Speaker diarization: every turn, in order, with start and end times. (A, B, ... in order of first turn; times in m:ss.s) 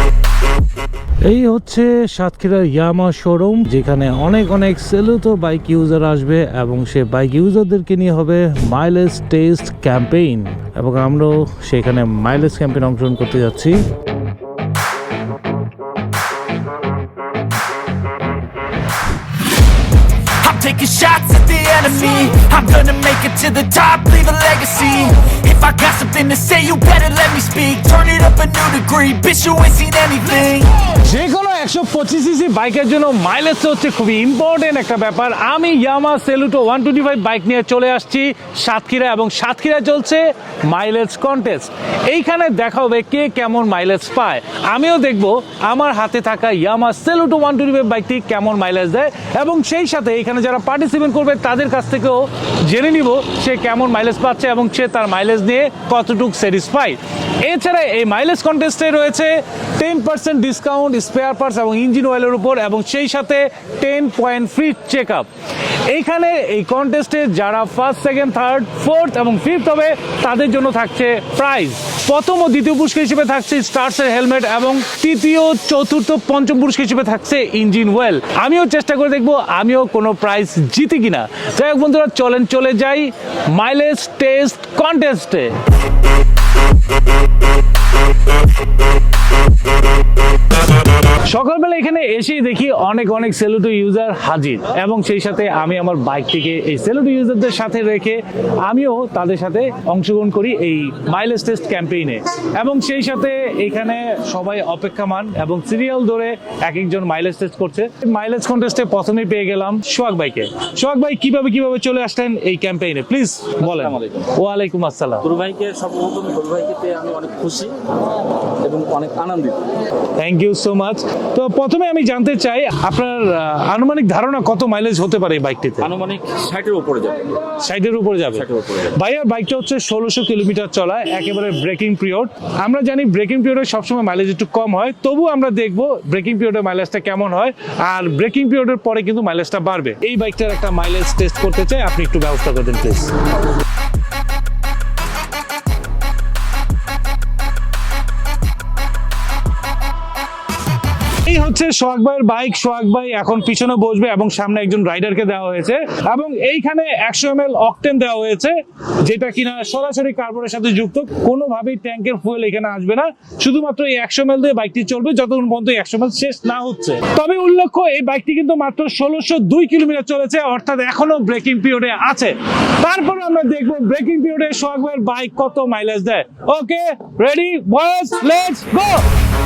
0:01.2-0:13.9 A
0:20.3-0:30.8 B
0:30.9-1:05.3 A
1:05.9-1:25.6 A
1:31.1-1:55.3 A
1:53.6-1:54.2 C
1:55.2-1:59.7 C
2:00.2-2:05.9 A
2:05.8-2:07.5 C
2:07.6-2:23.1 A
2:08.4-2:08.9 C
2:31.2-2:59.1 A